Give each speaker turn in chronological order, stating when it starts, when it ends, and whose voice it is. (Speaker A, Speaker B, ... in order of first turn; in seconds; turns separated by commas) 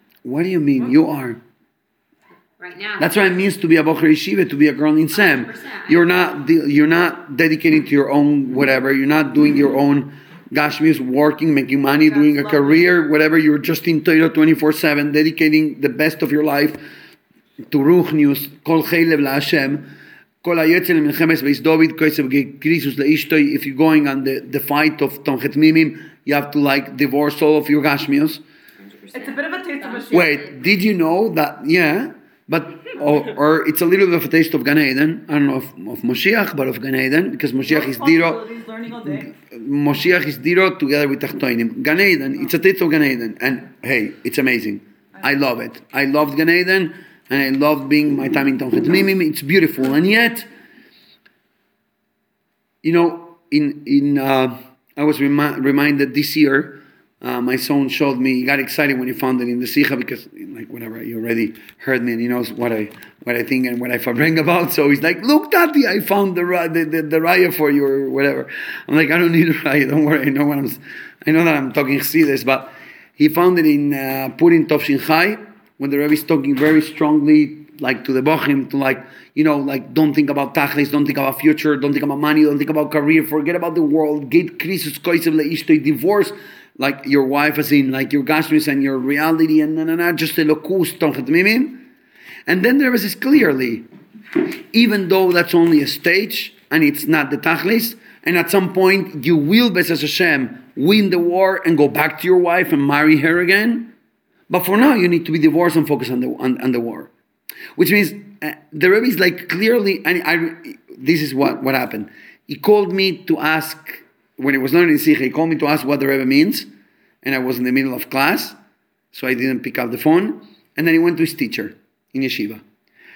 Speaker A: 0.2-1.4, Speaker B: 2.6-3.5, Speaker A: 3.0-16.8, Speaker B: 5.1-6.4, Speaker A: 17.7-19.9, Speaker A: 20.4-28.4, Speaker B: 28.8-30.6, Speaker C: 29.1-30.3, Speaker A: 30.1-38.4, Speaker C: 37.7-39.3, Speaker A: 39.1-50.5, Speaker A: 52.8-91.8, Speaker A: 92.5-93.9, Speaker A: 94.7-103.9, Speaker A: 104.5-107.1, Speaker A: 107.8-116.7, Speaker A: 117.2-118.6, Speaker A: 119.1-122.6